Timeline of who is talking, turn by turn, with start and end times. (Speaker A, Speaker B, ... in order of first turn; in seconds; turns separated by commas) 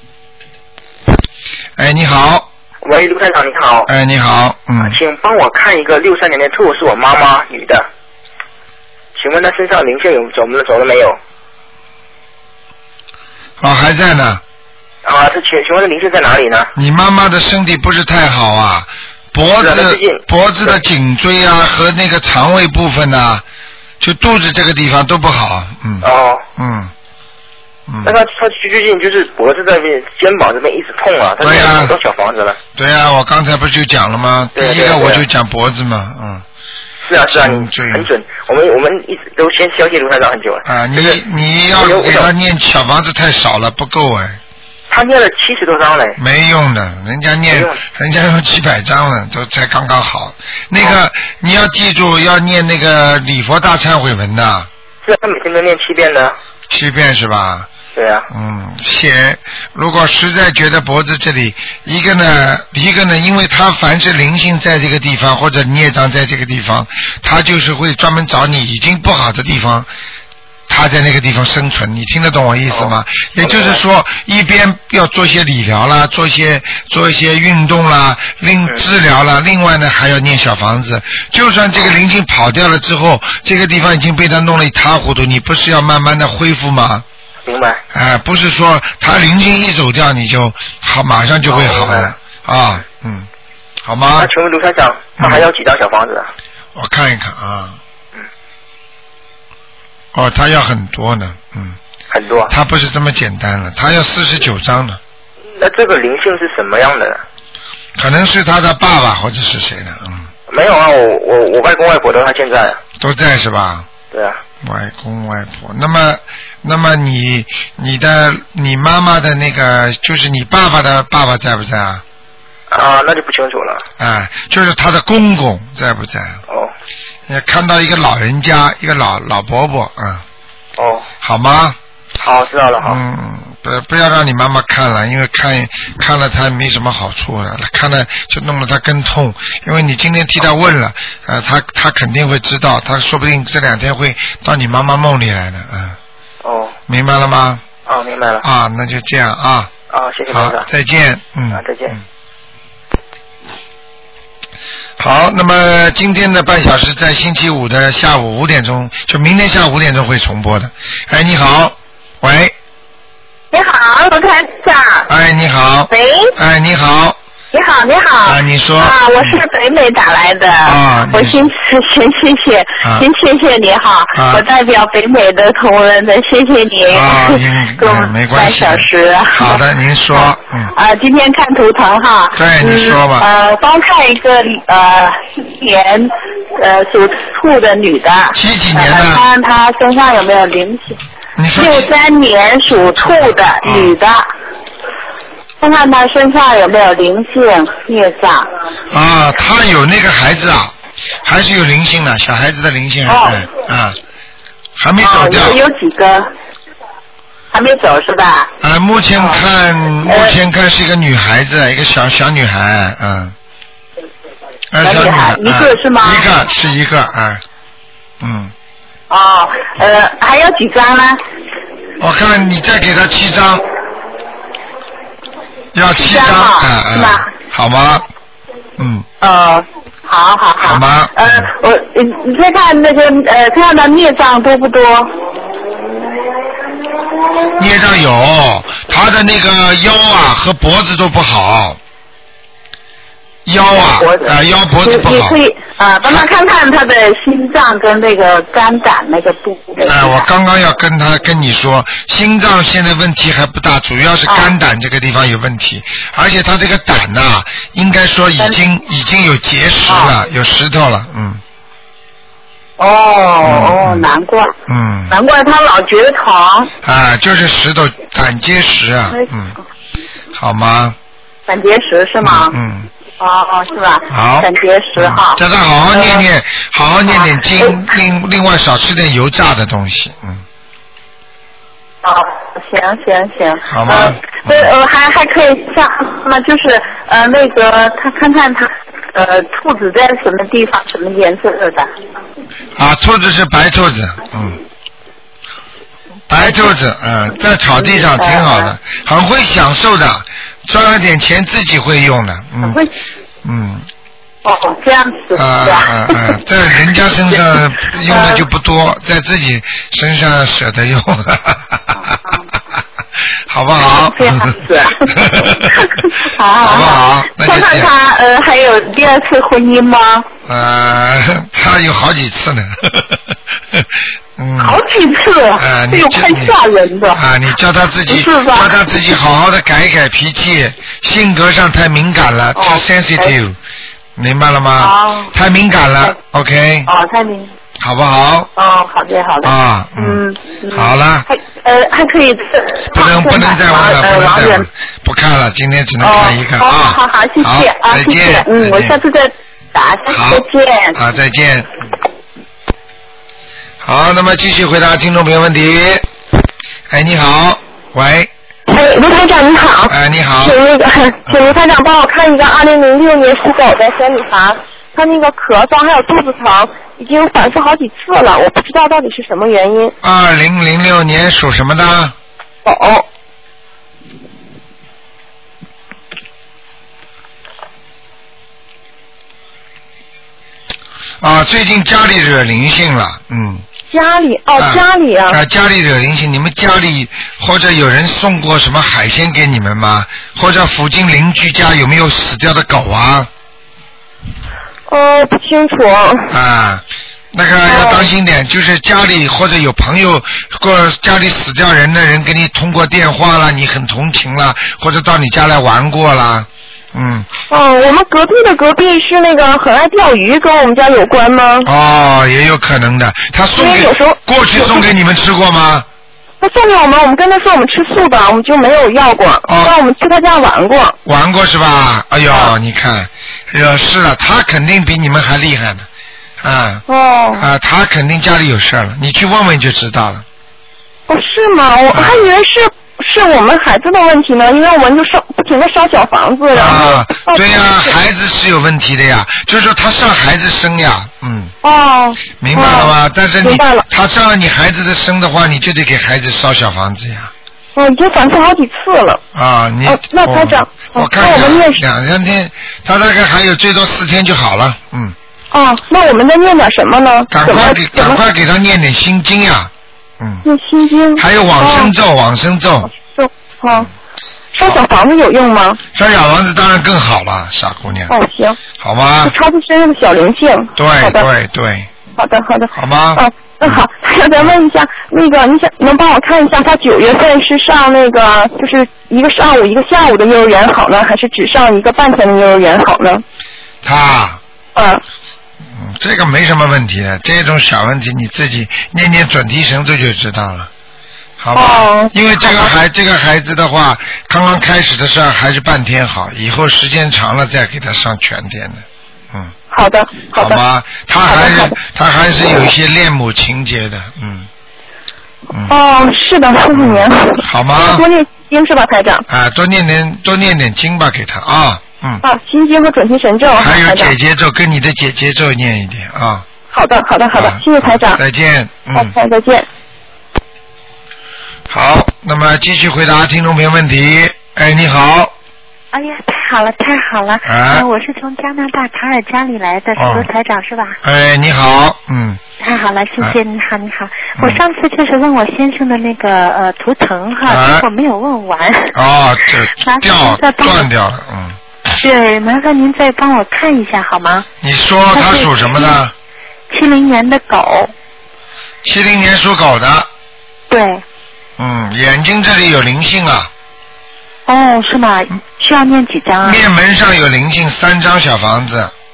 Speaker A: 1.8-2.5, Speaker B: 2.8-3.9, Speaker A: 3.9-5.0, Speaker B: 4.8-7.8, Speaker B: 9.2-11.2, Speaker A: 13.6-14.4, Speaker B: 15.0-16.7, Speaker A: 16.7-23.4, Speaker B: 19.6-20.8, Speaker A: 24.0-26.9, Speaker B: 26.0-26.4, Speaker A: 27.9-28.2, Speaker B: 28.0-32.6, Speaker A: 31.4-31.9, Speaker A: 32.8-36.5, Speaker B: 34.5-35.2, Speaker B: 37.0-41.2, Speaker A: 37.3-38.1, Speaker A: 40.6-44.4, Speaker B: 41.8-42.3, Speaker B: 44.9-46.2, Speaker A: 46.2-54.7, Speaker B: 47.5-47.8, Speaker B: 55.0-56.4, Speaker A: 56.7-57.7, Speaker B: 58.0-58.3, Speaker A: 58.3-69.9, Speaker A: 70.7-87.0, Speaker B: 72.7-73.8, Speaker B: 87.5-87.8, Speaker A: 87.9-93.3, Speaker B: 91.5-92.1, Speaker A: 93.8-94.3, Speaker B: 94.2-96.3, Speaker A: 95.2-95.5, Speaker A: 96.8-97.8, Speaker A: 100.1-101.8, Speaker B: 102.1-102.5, Speaker A: 102.5-105.0, Speaker B: 105.6-107.2, Speaker A: 108.0-110.3, Speaker B: 110.5-112.8, Speaker A: 113.0-113.9, Speaker B: 114.1-114.4, Speaker A: 114.6-122.0, Speaker B: 122.7-123.8, Speaker A: 124.0-126.4, Speaker A: 127.3-130.2, Speaker B: 130.8-131.1, Speaker A: 131.2-131.8, Speaker B: 132.2-133.0, Speaker A: 132.8-146.0, Speaker B: 146.4-146.8, Speaker A: 146.9-147.6, Speaker B: 147.8-148.4, Speaker A: 148.4-149.7, Speaker B: 149.9-150.7, Speaker A: 150.3-152.0, Speaker B: 151.5-151.9, Speaker A: 155.0-162.5, Speaker C: 163.5-165.1, Speaker A: 165.1-167.2, Speaker C: 165.9-166.3, Speaker C: 167.5-191.0, Speaker A: 168.2-169.4, Speaker A: 170.6-171.4, Speaker A: 172.8-173.1, Speaker A: 174.1-174.4, Speaker A: 176.9-180.7, Speaker A: 182.3-183.3, Speaker A: 188.3-189.2, Speaker A: 191.3-191.9, Speaker C: 191.6-194.3, Speaker A: 192.7-194.0, Speaker C: 195.6-198.5, Speaker A: 198.9-204.0, Speaker C: 203.1-203.4, Speaker A: 204.8-205.6, Speaker C: 205.0-206.3, Speaker C: 207.5-208.5, Speaker A: 208.6-213.3, Speaker C: 210.1-210.3, Speaker A: 214.7-217.4, Speaker C: 214.8-216.2, Speaker A: 218.2-218.5, Speaker C: 219.1-221.2, Speaker A: 222.0-223.6, Speaker A: 225.7-228.1, Speaker C: 225.9-227.3, Speaker A: 228.8-229.1, Speaker C: 229.2-235.1, Speaker A: 230.6-231.5, Speaker A: 237.6-241.8, Speaker A: 243.4-245.4, Speaker C: 243.7-250.3, Speaker A: 249.8-261.4, Speaker C: 254.3-254.5, Speaker C: 259.9-260.1, Speaker C: 262.8-264.5, Speaker A: 263.4-264.1, Speaker A: 264.7-265.2, Speaker C: 265.1-266.7, Speaker A: 266.8-269.6, Speaker A: 270.3-270.9, Speaker C: 271.5-272.6, Speaker A: 272.2-272.9, Speaker C: 273.2-275.4, Speaker A: 274.1-280.4, Speaker C: 275.9-276.2, Speaker C: 277.1-277.9, Speaker C: 282.0-291.9, Speaker A: 283.7-284.7, Speaker A: 292.8-294.6, Speaker A: 296.3-302.8, Speaker C: 296.4-296.7, Speaker C: 297.8-298.8, Speaker C: 302.6-302.9, Speaker A: 303.4-303.9, Speaker C: 304.4-306.3, Speaker A: 305.3-312.3, Speaker C: 308.1-308.4, Speaker A: 313.5-315.9, Speaker C: 313.9-320.3, Speaker A: 316.6-317.9, Speaker A: 320.5-324.8, Speaker C: 324.6-327.2, Speaker A: 325.6-326.6, Speaker A: 327.1-333.6, Speaker C: 332.6-333.3, Speaker A: 334.1-336.9, Speaker C: 334.8-335.3, Speaker C: 336.9-337.5, Speaker A: 337.8-338.5, Speaker C: 338.6-344.7, Speaker A: 339.4-341.2, Speaker A: 342.9-349.0, Speaker C: 346.0-351.0, Speaker A: 350.1-350.4, Speaker A: 350.9-351.7, Speaker A: 353.8-356.1, Speaker A: 356.9-358.3, Speaker D: 358.7-369.9, Speaker A: 359.9-360.6, Speaker A: 361.2-361.6, Speaker A: 370.0-372.1, Speaker D: 372.6-373.1, Speaker A: 381.2-383.6, Speaker D: 383.9-385.4, Speaker A: 384.6-393.3, Speaker D: 394.9-396.4, Speaker A: 396.3-407.3, Speaker D: 397.6-398.1, Speaker D: 407.5-411.7, Speaker A: 411.6-415.9, Speaker D: 413.6-414.9, Speaker D: 416.4-421.0, Speaker A: 419.4-419.7, Speaker A: 421.1-425.9, Speaker A: 426.4-426.8, Speaker D: 426.9-427.4, Speaker A: 427.3-430.2, Speaker D: 431.1-437.9, Speaker A: 431.9-432.3, Speaker A: 436.5-441.5, Speaker D: 441.6-443.9, Speaker A: 442.4-447.3, Speaker D: 447.8-449.2, Speaker A: 449.3-455.1, Speaker D: 449.9-451.8, Speaker D: 455.5-458.2, Speaker A: 457.3-460.4, Speaker D: 460.4-461.9, Speaker A: 461.2-462.9, Speaker D: 462.9-463.9, Speaker D: 464.5-465.8, Speaker A: 465.9-468.1, Speaker D: 468.1-468.6, Speaker A: 468.8-469.3, Speaker D: 469.2-471.3, Speaker A: 470.8-471.9, Speaker D: 472.2-483.2, Speaker A: 472.7-473.8, Speaker A: 483.8-484.4, Speaker D: 484.7-485.0, Speaker A: 485.7-490.7, Speaker A: 491.4-499.5, Speaker D: 491.6-492.7, Speaker D: 499.7-500.6, Speaker A: 500.3-504.5, Speaker D: 501.2-501.7, Speaker D: 505.6-509.2, Speaker A: 506.7-508.1, Speaker A: 509.3-512.2, Speaker D: 512.2-514.1, Speaker A: 513.6-516.5, Speaker D: 516.7-518.2, Speaker A: 517.3-519.1, Speaker D: 518.9-519.7, Speaker A: 521.7-525.3, Speaker E: 525.9-531.0, Speaker A: 527.5-527.9, Speaker A: 530.0-530.3, Speaker A: 531.0-532.4, Speaker E: 532.6-538.9, Speaker A: 537.5-537.9, Speaker A: 538.9-541.6, Speaker E: 539.8-540.9, Speaker E: 542.0-544.5, Speaker A: 544.6-546.1, Speaker E: 545.1-546.0, Speaker E: 546.7-547.9, Speaker A: 548.8-550.1, Speaker E: 550.7-551.0, Speaker A: 551.6-553.5, Speaker E: 554.5-556.6, Speaker A: 556.4-558.9